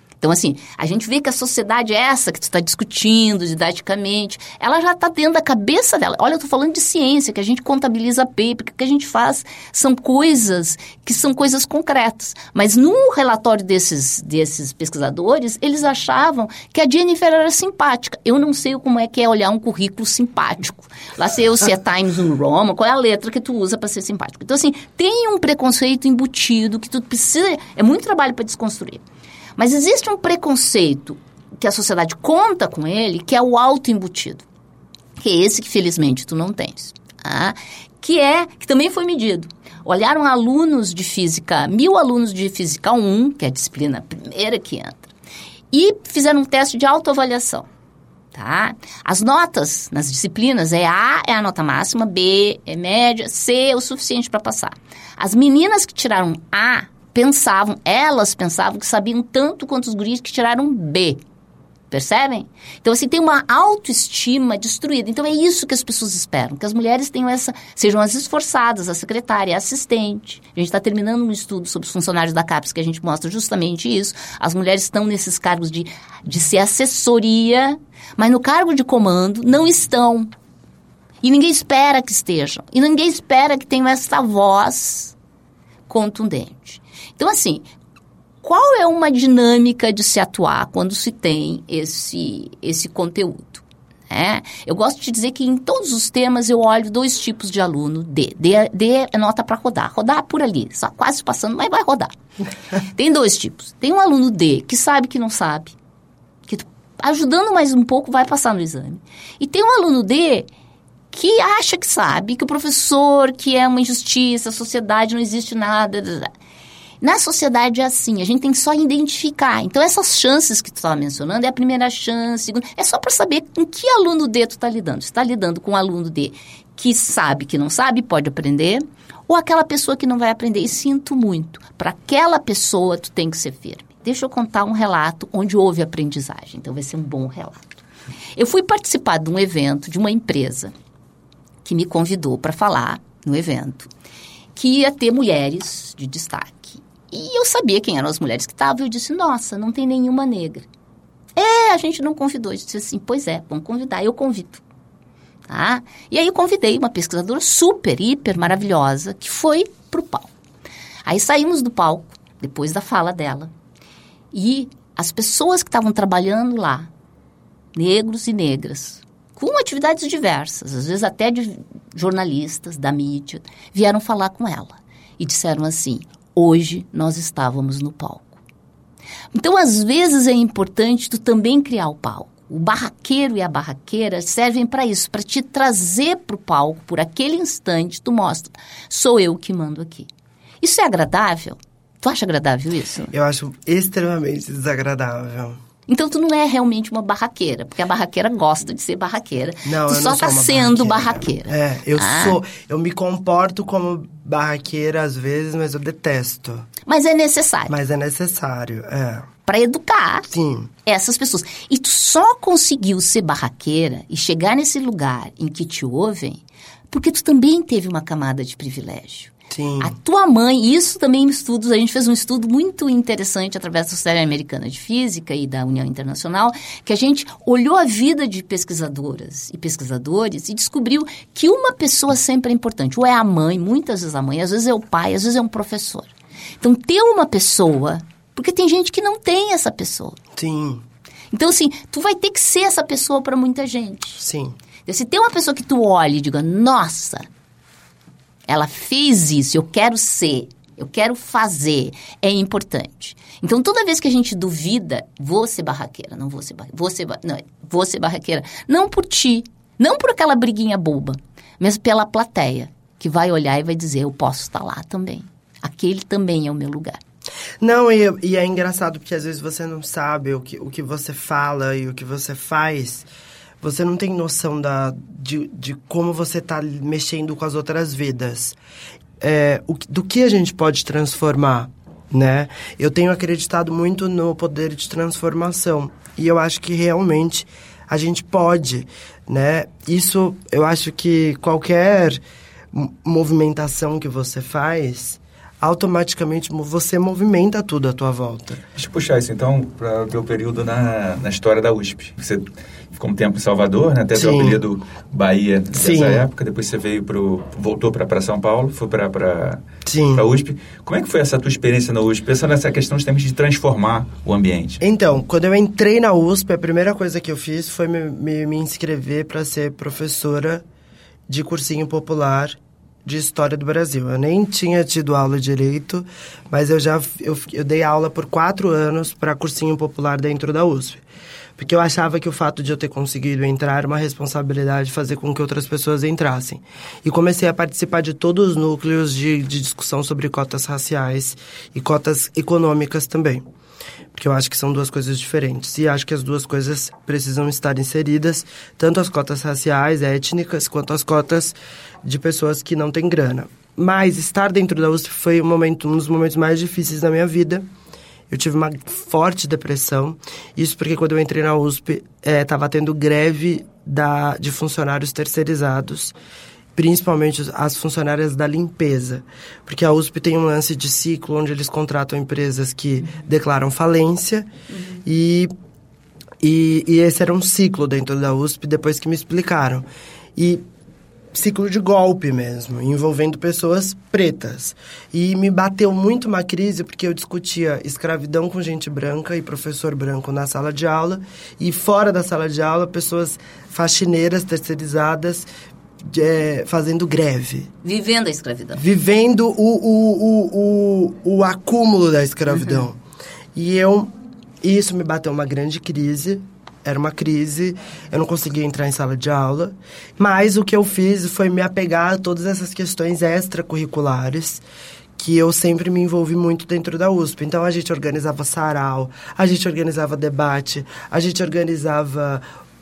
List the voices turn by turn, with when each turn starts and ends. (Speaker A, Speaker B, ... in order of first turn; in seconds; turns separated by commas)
Speaker A: 0.2-29.0, Speaker A: 29.6-34.4, Speaker A: 35.2-45.1, Speaker A: 45.7-47.7, Speaker A: 48.3-61.2, Speaker A: 61.9-80.3, Speaker A: 81.2-85.1, Speaker A: 85.9-87.7, Speaker A: 88.4-102.1, Speaker A: 102.8-105.7, Speaker A: 106.5-110.5, Speaker A: 111.1-116.3, Speaker A: 117.0-137.7, Speaker A: 138.4-140.7, Speaker A: 141.6-143.9, Speaker A: 144.5-150.7, Speaker A: 151.3-154.6, Speaker A: 155.5-160.3, Speaker A: 161.1-163.5, Speaker A: 164.3-166.9, Speaker A: 167.7-178.4, Speaker A: 179.3-190.1, Speaker A: 190.6-193.1, Speaker B: 193.1-195.6, Speaker A: 195.9-202.4, Speaker B: 199.6-206.7, Speaker A: 206.8-207.7, Speaker B: 207.7-209.3, Speaker A: 209.4-210.3, Speaker B: 210.3-210.7, Speaker A: 210.8-236.1, Speaker B: 219.5-219.9, Speaker A: 236.6-240.2, Speaker B: 240.3-240.8, Speaker A: 241.3-244.2, Speaker B: 244.2-244.6, Speaker A: 244.8-247.3, Speaker A: 248.5-267.0, Speaker B: 267.6-273.1, Speaker B: 273.6-278.6, Speaker B: 279.2-292.2, Speaker B: 292.7-298.6, Speaker C: 298.7-314.8, Speaker B: 304.1-304.6, Speaker B: 305.7-306.3, Speaker B: 309.8-310.2, Speaker B: 314.8-320.6, Speaker B: 321.3-331.0, Speaker B: 331.6-343.4, Speaker B: 344.1-357.6, Speaker B: 358.3-366.1, Speaker B: 366.8-374.5, Speaker B: 375.0-375.5, Speaker B: 376.4-380.6, Speaker B: 381.3-395.5, Speaker B: 396.0-397.7, Speaker A: 397.8-398.8, Speaker B: 398.7-403.0, Speaker B: 403.5-414.6, Speaker B: 415.2-422.4